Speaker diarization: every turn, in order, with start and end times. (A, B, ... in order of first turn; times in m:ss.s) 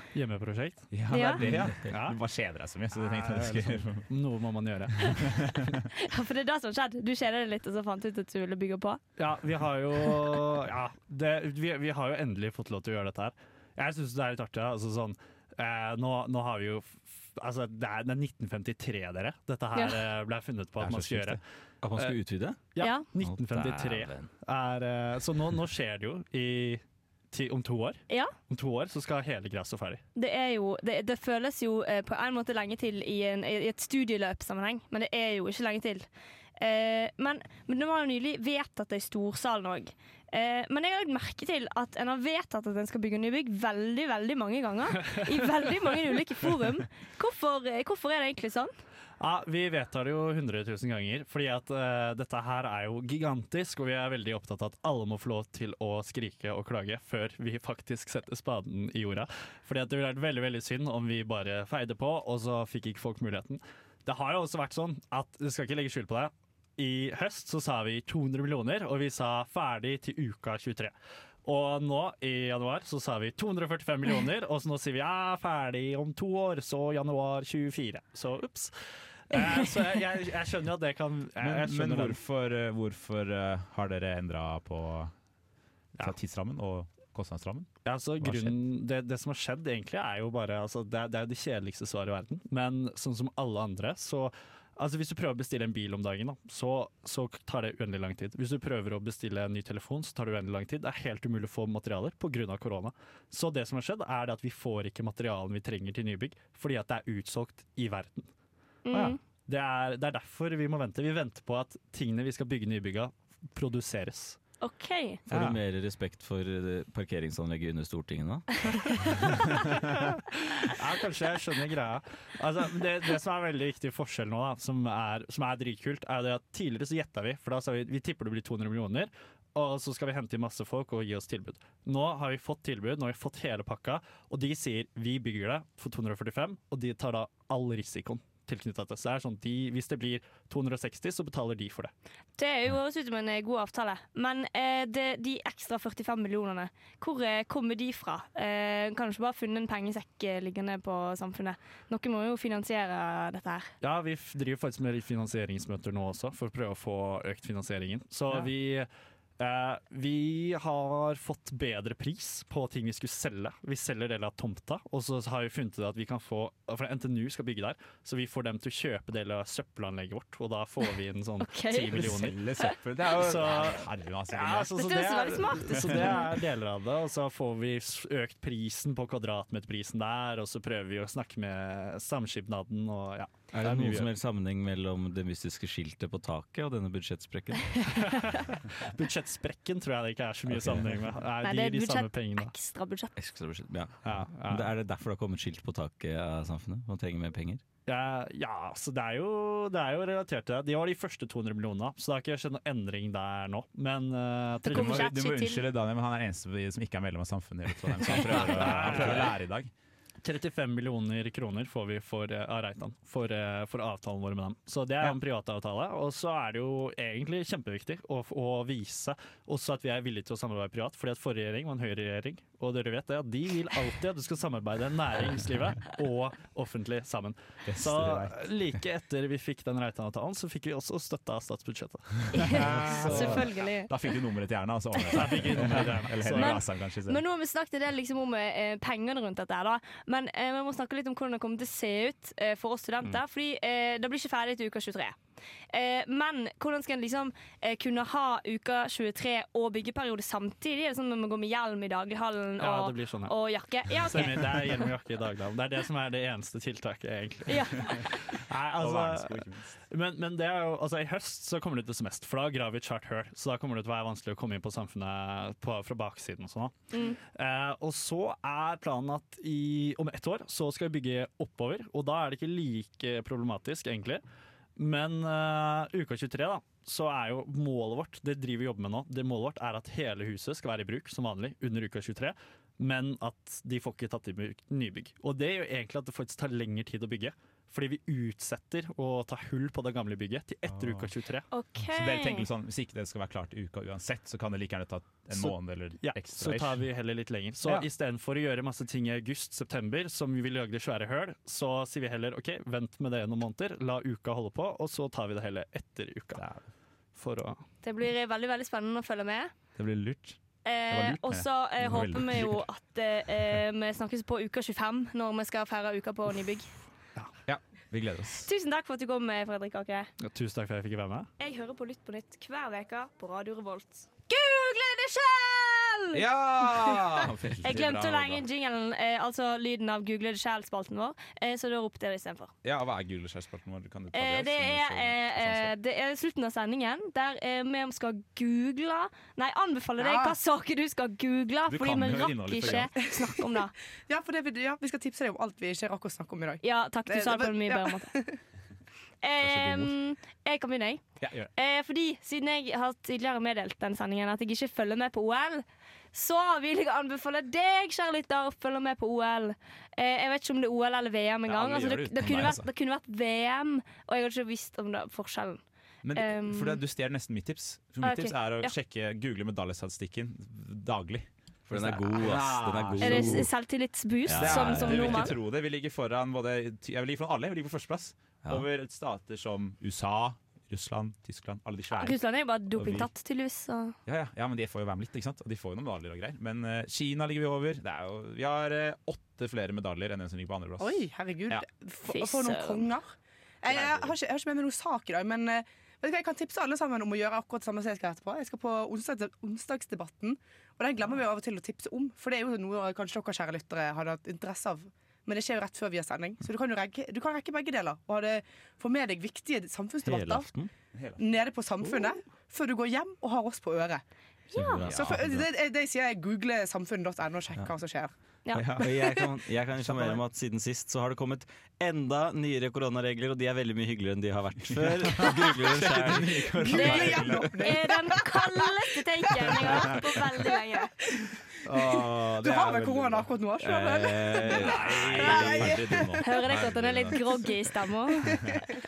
0:00.1-0:00.9 A
0:00.9-0:04.1 B
0:01.1-0:01.4 C
0:01.5-0:02.2 A
0:03.0-0:05.5 A
0:05.1-0:05.6 B
0:06.0-0:09.0 C
0:09.2-0:21.4 A
0:19.7-0:20.0 C
0:20.8-0:21.4 B
0:21.8-0:24.3 D
0:22.8-0:30.0 A
0:22.8-0:23.1 C
0:28.1-0:28.3 C
0:30.2-0:36.1 C
0:36.6-0:48.7 C
0:49.2-1:18.7 A
1:19.3-1:22.2 A
1:21.4-1:25.1 B
1:26.0-1:28.5 B
1:27.8-1:48.3 A
1:48.9-1:49.2 C
1:49.0-1:54.4 A
1:54.6-1:55.2 C
1:55.3-1:58.7 D
1:55.3-1:55.6 B
2:00.6-2:21.9 A
2:22.4-2:33.7 C
2:33.8-3:04.1 A
2:51.4-2:52.1 C
2:51.9-2:54.9 B
2:54.7-2:56.2 C
2:55.7-2:56.3 B
3:03.5-3:07.7 D
3:07.9-3:12.5 A
3:10.5-3:11.0 D
3:11.4-3:13.1 C
3:13.2-3:17.6 D
3:14.0-3:14.7 A
3:17.9-3:25.0 A
3:24.7-3:25.6 C
3:24.7-3:29.7 B
3:28.1-3:29.4 A
3:30.2-3:53.5 A
3:47.7-3:48.4 B
3:52.3-3:53.9 C
3:52.4-3:57.2 B
3:55.1-3:56.6 A
3:56.2-4:05.2 C
4:05.7-4:14.9 C
4:12.6-4:13.4 A
4:13.9-4:26.7 A
4:17.5-4:18.1 C
4:18.8-4:19.8 B
4:26.9-4:27.2 C
4:27.2-4:34.2 A
4:34.8-4:51.5 A
4:50.7-4:51.1 B
4:51.5-4:52.5 C
4:51.9-4:56.9 B
4:55.3-5:06.6 A
5:07.2-5:07.6 A
5:07.8-5:09.5 C
5:09.8-5:12.6 B
5:10.6-5:16.7 C
5:17.5-5:18.5 B
5:18.4-5:20.1 C
5:20.2-5:21.3 A
5:21.4-5:32.5 C
5:26.1-5:28.4 B
5:32.6-5:35.7 B
5:34.1-5:43.7 C
5:40.0-5:40.4 E
5:41.7-5:42.9 B
5:43.0-5:48.4 E
5:46.6-5:48.1 C
5:49.2-5:51.0 C
5:49.4-5:49.9 B
5:51.2-5:51.5 B
5:51.6-6:05.6 C
6:01.5-6:02.7 B
6:06.0-6:13.5 B
6:06.2-6:06.8 C
6:08.0-6:08.7 C
6:11.7-6:13.5 D
6:13.0-6:15.4 C
6:14.3-6:15.4 D
6:14.3-6:22.2 B
6:22.0-6:24.0 C
6:22.8-6:23.1 B
6:24.1-6:31.6 B
6:30.8-6:50.5 E
6:32.1-6:32.8 C
6:33.7-6:34.1 B
6:50.0-6:50.7 D
6:50.9-6:51.2 B
6:51.2-6:54.0 E
6:54.5-6:55.5 D
6:54.9-6:58.1 E
6:58.4-6:58.8 C
6:58.6-6:58.9 B
6:58.6-7:06.5 D
6:59.7-7:00.2 B
7:05.1-7:07.8 B
7:06.6-7:08.5 E
7:06.7-7:10.9 C
7:09.4-7:10.5 E
7:09.7-7:10.0 B
7:11.1-7:16.3 E
7:11.6-7:17.2 B
7:13.6-7:16.8 D
7:16.2-7:18.6 C
7:18.3-7:18.6 B